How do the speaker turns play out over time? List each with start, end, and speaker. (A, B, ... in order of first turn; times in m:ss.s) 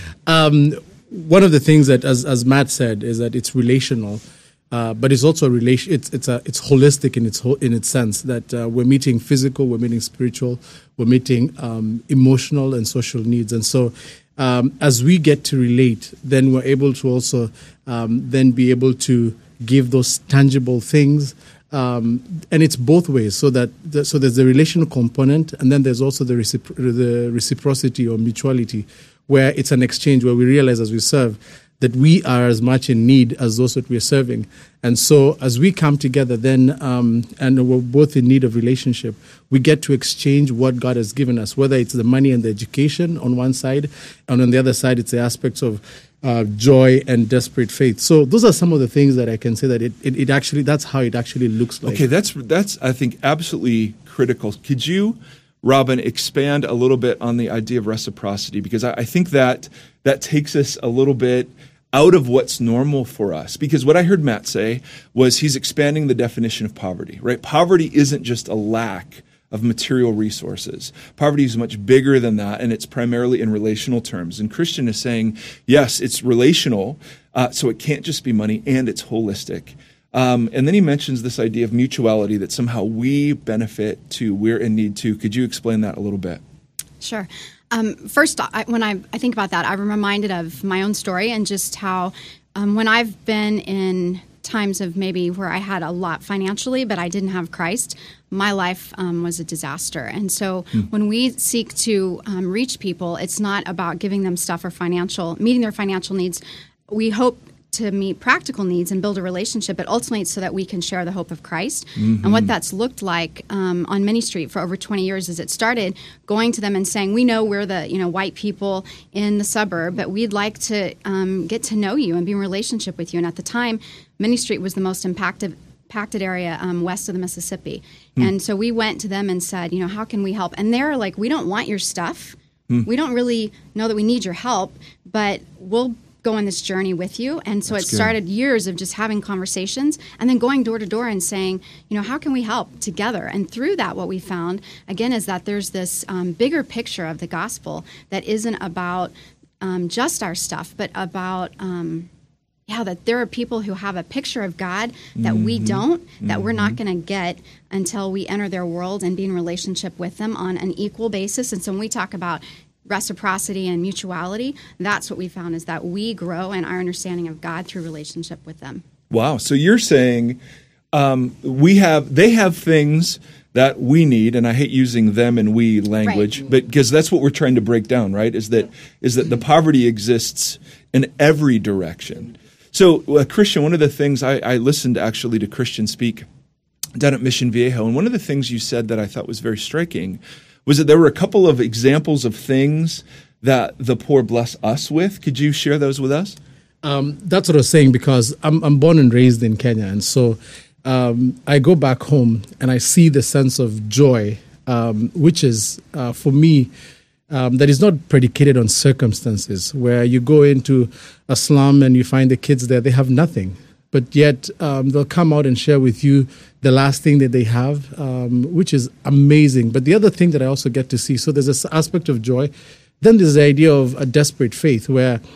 0:00.3-0:52.1 A
0:51.8-1:26.4 B
1:27.0-2:32.1 C
1:52.0-1:52.5 B
2:17.7-2:18.1 B
2:32.7-2:48.8 C
2:35.2-2:36.8 B
2:49.1-2:50.4 B
2:50.9-3:06.2 B
2:56.0-2:56.3 C
3:07.0-3:16.4 B
3:16.8-3:26.7 A
3:27.3-3:42.5 A
3:43.0-3:45.2 A